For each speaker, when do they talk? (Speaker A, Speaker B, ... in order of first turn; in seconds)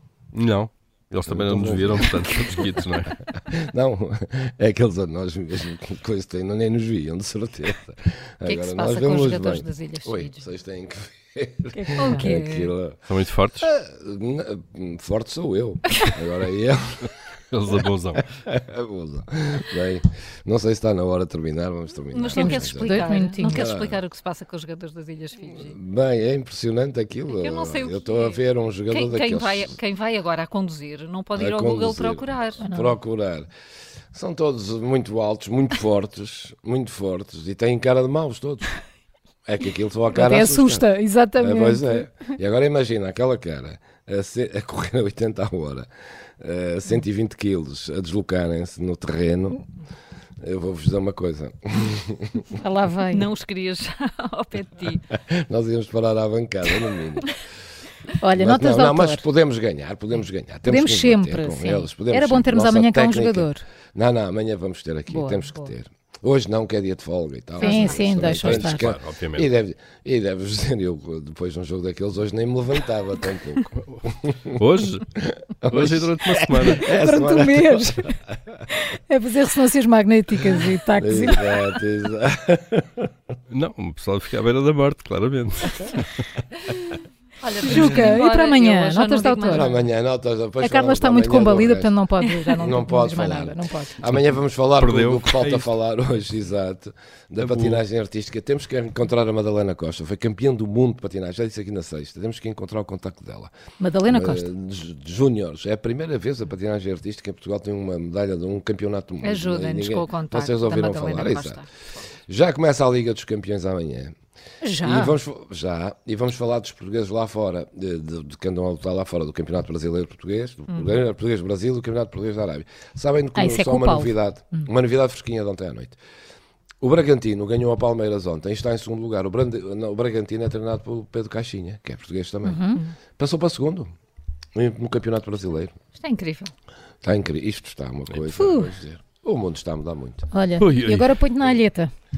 Speaker A: 0.3-3.2, 13.1-13.7, 17.5-18.3, 67.9-69.5, 73.9-75.1, 75.7-76.9, 83.5-86.3, 87.7-88.1, 94.8-95.7, 97.4-97.8, 140.6-141.1
Speaker B: 1.3-2.7, 3.5-13.0, 13.6-17.1, 18.4-24.0, 25.6-29.8, 31.3-33.5, 34.1-38.8, 39.5-45.9, 46.4-49.6, 50.4-52.5, 55.1-57.3, 58.4-74.5, 75.2-78.1, 81.0-83.1, 89.5-92.0, 92.5-103.5, 104.1-111.6, 112.3-114.1, 114.8-126.0, 126.8-133.9, 134.6-135.8, 137.0-140.3
Speaker C: 8.4-10.4, 11.9-12.7, 22.1-25.8, 27.3-32.7, 53.1-55.1, 67.8-68.1, 87.4-89.8, 109.2-112.1, 136.0-136.5
Speaker D: 11.7-12.3, 22.4-23.6, 32.6-33.0, 40.1-42.0, 52.6-53.3, 58.2-59.2, 60.6-63.6, 65.1-65.7, 67.6-68.9, 77.0-78.2, 78.7-81.6, 87.6-89.7, 90.6-94.0, 103.8-104.5, 114.6-115.2, 123.3-124.7, 132.4-132.8, 138.3-138.7, 140.3-141.9